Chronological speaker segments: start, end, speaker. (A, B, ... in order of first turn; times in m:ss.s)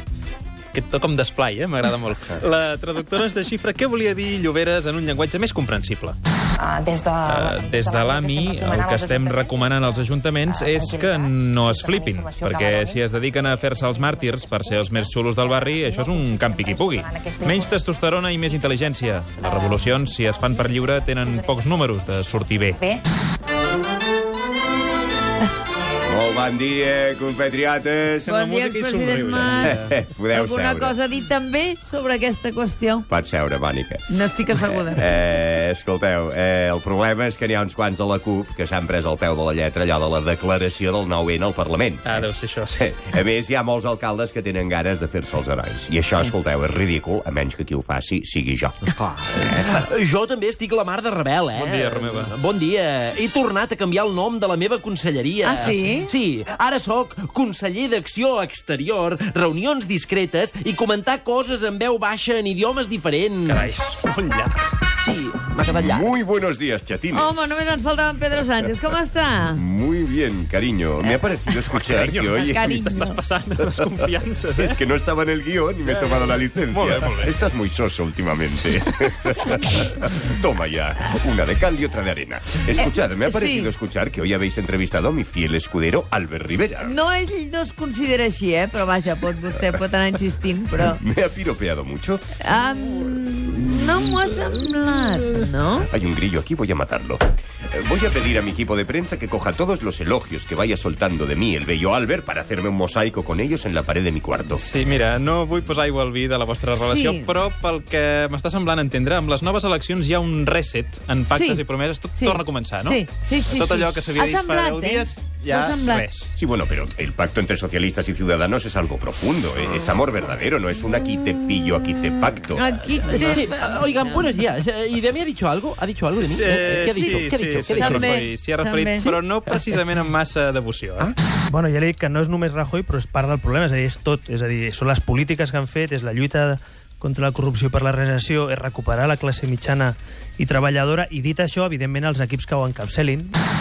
0:00.7-0:06.2 A
0:06.6-0:21.7 B
0:07.3-0:22.8 A
0:22.8-0:23.0 B
0:26.1-0:28.4 C
0:28.2-0:29.9 A
0:28.2-0:33.1 D
0:29.5-0:31.0 C
0:33.1-0:34.0 C
0:34.1-0:35.1 D
0:34.6-0:48.8 C
0:42.0-0:42.9 A
0:48.9-1:03.7 E
0:51.5-0:52.4 A
0:55.4-0:56.1 D
1:03.4-1:04.6 A
1:05.0-1:06.1 E
1:05.7-1:07.7 C
1:07.1-1:09.6 D
1:08.6-1:09.0 C
1:09.5-1:12.8 C
1:11.7-1:14.8 A
1:12.4-1:13.2 D
1:14.5-1:27.0 C
1:15.8-1:17.3 A
1:22.8-1:23.7 D
1:26.8-1:31.0 D
1:30.8-1:32.2 C
1:32.4-1:35.9 D
1:35.9-1:44.6 C
1:44.6-1:56.3 A
1:46.8-1:47.3 D
1:51.3-1:56.1 D
1:56.4-2:02.7 C
2:02.5-2:04.2 D
2:03.0-2:08.0 E
2:06.2-2:11.1 A
2:06.7-2:09.1 D
2:11.5-2:23.4 F